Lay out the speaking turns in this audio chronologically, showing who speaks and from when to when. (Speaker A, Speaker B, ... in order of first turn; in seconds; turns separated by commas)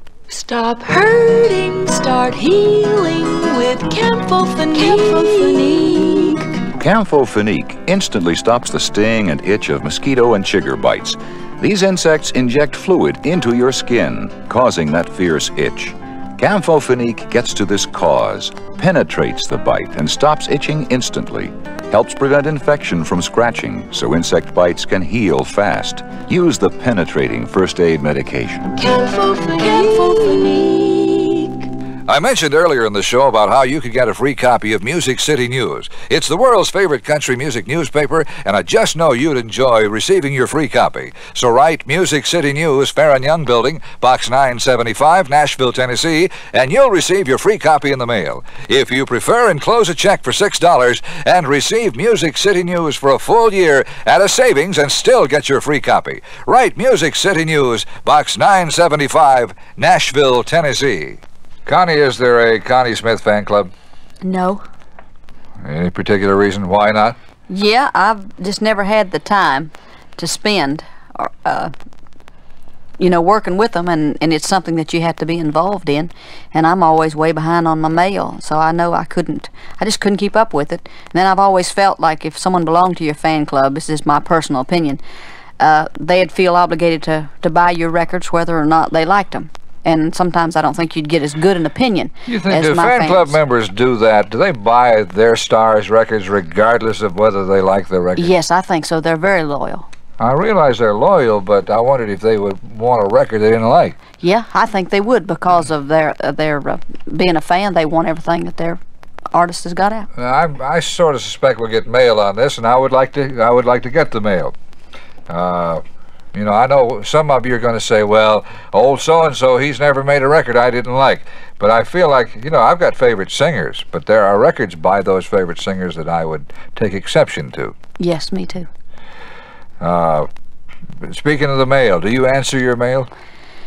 Speaker A: 0.3-6.6, Speaker B: 6.8-28.7, Speaker A: 28.7-31.7, Speaker C: 32.1-63.7, Speaker D: 64.2-64.6, Speaker C: 65.6-67.2, Speaker D: 67.5-71.7, Speaker D: 73.0-85.0, Speaker D: 85.6-93.4, Speaker C: 92.2-98.3, Speaker D: 98.2-99.9, Speaker C: 100.2-104.0, Speaker D: 104.2-108.8, Speaker D: 109.3-110.1, Speaker C: 110.2-114.5, Speaker C: 115.3-115.8, Speaker C: 116.3-127.7, Speaker D: 128.0-128.7, Speaker C: 129.8-130.3, Speaker C: 131.0-133.1